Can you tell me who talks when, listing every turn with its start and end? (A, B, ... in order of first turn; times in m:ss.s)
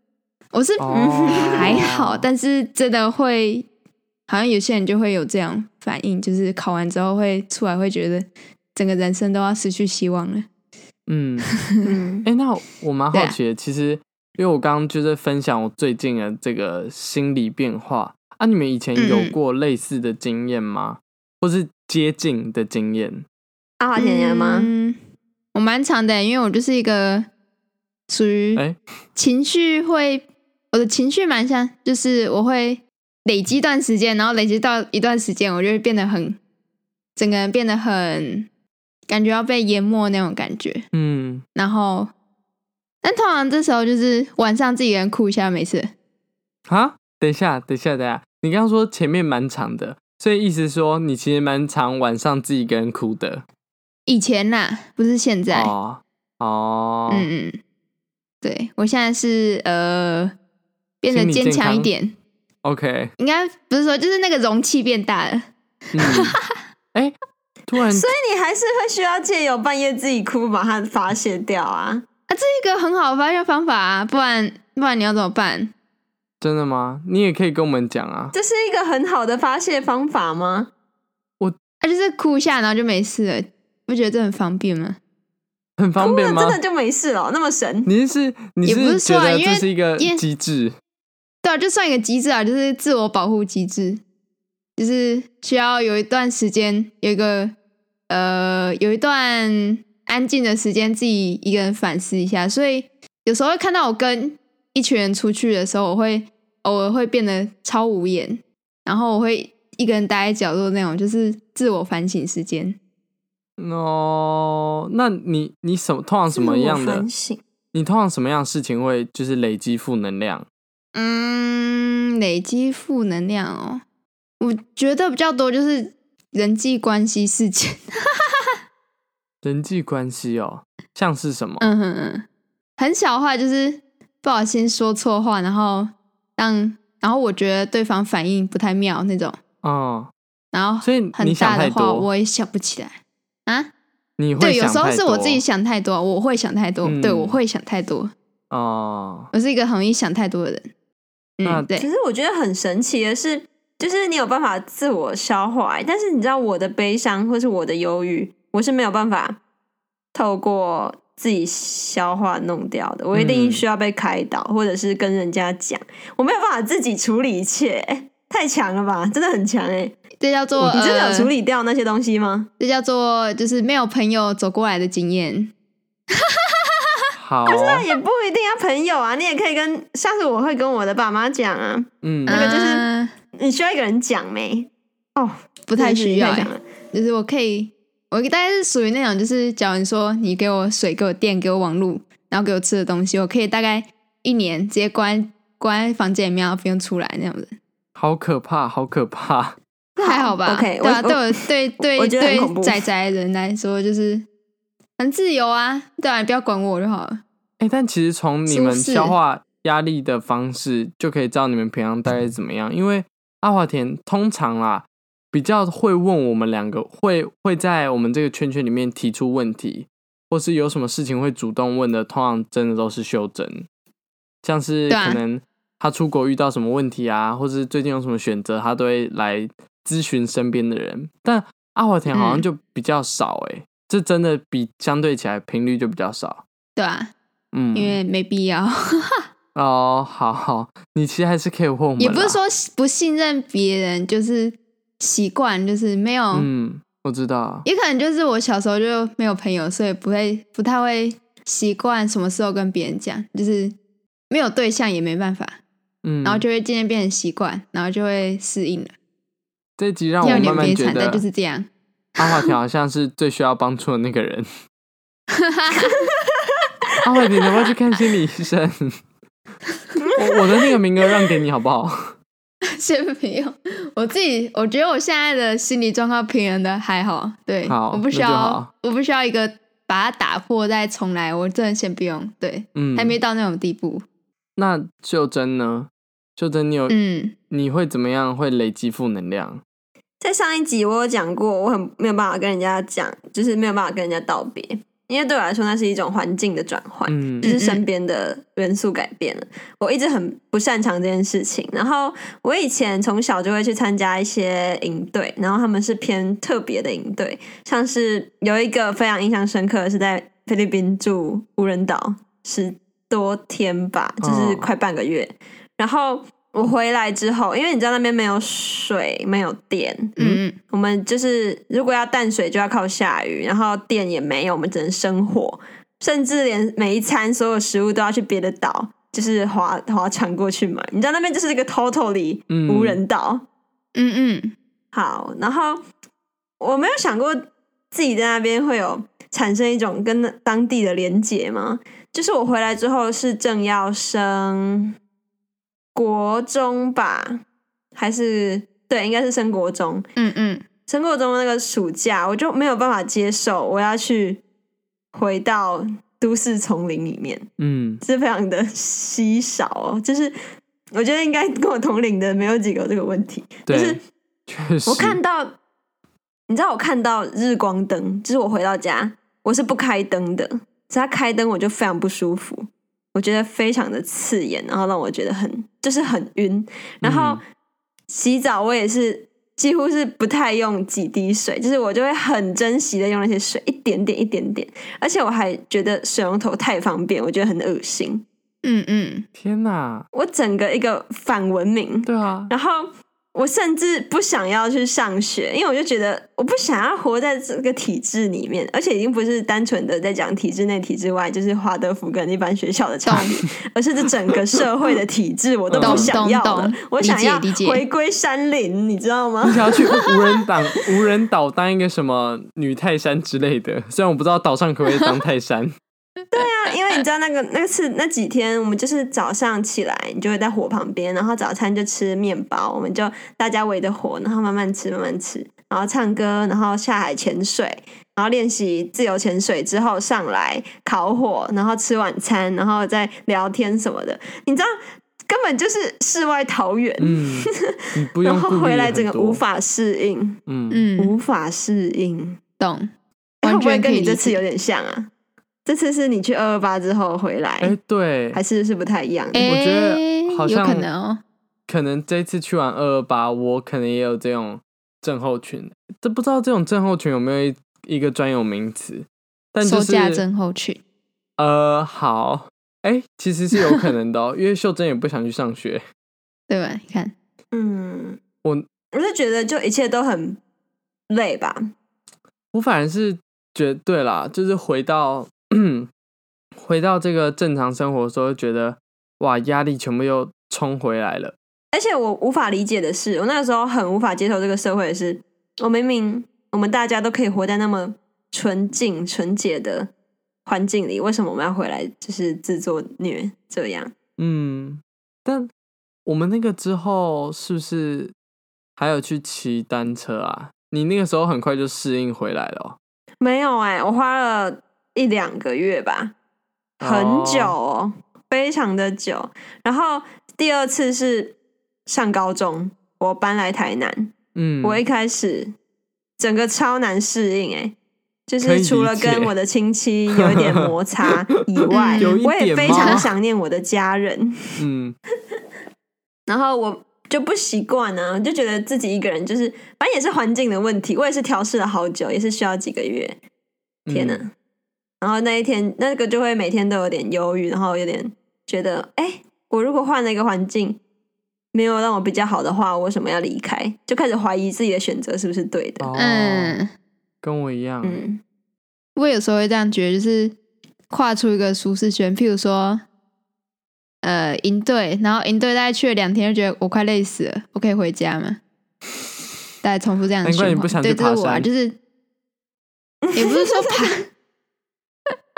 0:00.5-0:03.7 A
0:00.8-0:02.3 B
0:00.9-0:01.8 C
0:04.3-0:10.5 A
0:11.1-0:11.6 B
0:11.8-0:12.3 C
0:12.2-0:23.3 B
0:19.0-0:19.4 A
0:23.8-0:24.7 C
0:24.0-0:25.0 A
0:25.5-0:27.3 A
0:28.1-0:28.6 A
0:29.2-0:36.4 A
0:37.2-0:38.5 A
0:39.1-0:40.9 A
0:40.9-0:41.4 B
0:41.6-0:42.1 A
0:43.0-0:45.9 A
0:46.7-0:53.4 B
0:54.1-0:55.7 A
0:55.5-0:57.3 B
0:57.1-0:57.6 A
0:58.4-1:00.3 A
1:01.0-1:02.2 A
1:01.1-1:01.9 B
1:02.6-1:03.1 B
1:03.2-1:05.5 A
1:05.9-1:06.4 B
1:06.0-1:06.6 A
1:07.7-1:08.1 B
1:07.9-1:12.0 C
1:12.3-1:15.7 A
1:16.4-1:18.3 B
1:18.3-1:20.7 C
1:21.8-1:25.0 A
1:25.8-1:26.6 B
1:26.0-1:27.9 C
1:27.9-1:30.7 B
1:28.6-1:30.2 A
1:31.4-1:34.0 A
1:34.8-1:37.5 A
1:38.1-1:52.8 A
1:53.6-1:57.1 B
1:56.3-1:57.4 C
1:57.7-2:00.5 B
2:01.0-2:03.8 A
2:04.4-2:08.3 A
2:09.4-2:11.7 B
2:11.6-2:12.2 A
2:12.8-2:19.4 A
2:19.6-2:20.1 B
2:20.5-2:23.7 A
2:20.8-2:22.1 B
2:24.2-2:25.4 B
2:24.4-2:28.1 A
2:26.8-2:27.4 B
2:28.5-2:29.3 B
2:29.3-2:30.7 A
2:31.4-2:31.9 A
2:31.8-2:39.4 C
2:40.1-2:50.0 C
2:43.1-2:43.6 B
2:50.2-2:51.3 A
2:50.6-2:52.5 C
2:52.6-2:55.5 A
2:57.2-2:57.8 B
2:57.5-3:06.6 C
3:02.0-3:02.5 B
3:02.3-3:03.1 A
3:05.7-3:17.5 A
3:18.0-3:19.6 B
3:20.0-3:22.8 C
3:20.0-3:24.2 A
3:25.0-3:27.2 A
3:27.6-3:43.7 B
3:28.5-3:29.2 A
3:44.4-3:56.4 B
3:44.9-3:45.2 A
3:52.1-3:52.4 A
3:56.8-3:57.1 A
3:57.5-3:58.0 B
3:57.7-3:59.2 A
3:59.6-4:02.4 B
4:02.0-4:06.5 A
4:06.3-4:07.7 B
4:07.6-4:13.7 A
4:14.3-4:15.6 A
4:16.0-4:16.4 B
4:16.2-4:18.9 A
4:19.8-4:21.2 B
4:20.2-4:22.5 A
4:22.2-4:24.5 B
4:25.3-4:26.1 A
4:27.0-4:29.0 B
4:30.0-4:30.8 C
4:30.2-4:32.1 B
4:32.7-4:44.0 A
4:37.7-4:38.7 B
4:42.8-4:43.2 B
4:44.6-4:47.0 B
4:46.9-4:47.4 A
4:47.5-4:49.6 B
4:50.2-5:20.2 C
4:57.1-4:57.5 B
4:57.4-4:57.8 A
5:14.2-5:14.7 B
5:20.2-5:20.6 A
5:20.7-5:33.4 C
5:32.5-5:33.0 B
5:34.0-5:34.5 A
5:34.9-5:35.8 C
5:36.6-5:44.9 C
5:46.0-5:47.4 C
5:48.0-5:50.1 C
5:50.2-5:50.6 A
5:50.9-5:54.4 C
5:55.1-5:57.5 C
5:57.6-5:58.0 B
5:58.0-6:00.4 C
6:00.9-6:04.0 C
6:03.7-6:05.2 B
6:04.9-6:05.6 C
6:06.5-6:17.4 C
6:17.0-6:17.4 B
6:18.1-6:28.2 C
6:28.6-6:29.3 A
6:29.4-6:30.1 B
6:30.1-6:50.1 C
6:32.0-6:32.5 B
6:43.0-6:43.3 A
6:45.7-6:46.2 B
6:45.8-6:47.8 A
6:49.4-6:55.7 B
6:56.3-7:14.7 C
7:15.3-7:17.6 C
7:17.0-7:19.4 B
7:18.2-7:20.4 C
7:20.5-7:20.8 B
7:20.7-7:21.2 A
7:21.0-7:22.4 C
7:22.6-7:22.9 A
7:23.4-7:25.1 C
7:23.4-7:24.4 A
7:25.7-7:27.8 C
7:27.6-7:28.4 B
7:28.3-7:29.5 C
7:29.3-7:31.2 A
7:29.4-7:30.9 B
7:31.7-7:40.2 B
7:39.6-7:40.8 A
7:41.4-7:45.8 B
7:46.5-7:47.1 A
7:47.5-7:48.2 C
7:48.9-7:50.4 C
7:51.1-7:51.7 C
7:52.5-7:55.9 B
7:56.6-8:01.4 B
8:01.7-8:09.9 C
8:10.5-8:13.9 C
8:14.2-8:15.5 B
8:16.1-8:18.1 B
8:18.8-8:22.8 B
8:23.2-8:26.1 C
8:26.8-8:27.6 B
8:26.8-8:31.4 C
8:31.9-8:35.5 C
8:34.4-8:34.8 B
8:36.2-8:37.8 C
8:38.3-8:44.6 C
8:38.4-8:39.3 B
8:40.2-8:40.7 B
8:41.7-8:43.0 A
8:42.0-8:43.1 B
8:44.6-8:45.0 B
8:46.3-8:53.2 C
8:53.9-8:54.2 B
8:53.9-8:54.3 C
8:55.0-9:00.8 C
9:01.5-9:05.9 C
9:05.8-9:06.6 B
9:06.0-9:06.7 A
9:07.2-9:08.0 B
9:07.8-9:08.2 C
9:09.0-9:10.4 A
9:10.9-9:12.8 A
9:14.0-9:18.4 A
9:19.6-9:21.8 A
9:20.2-9:21.5 B
9:23.0-9:23.8 C
9:23.2-9:24.1 A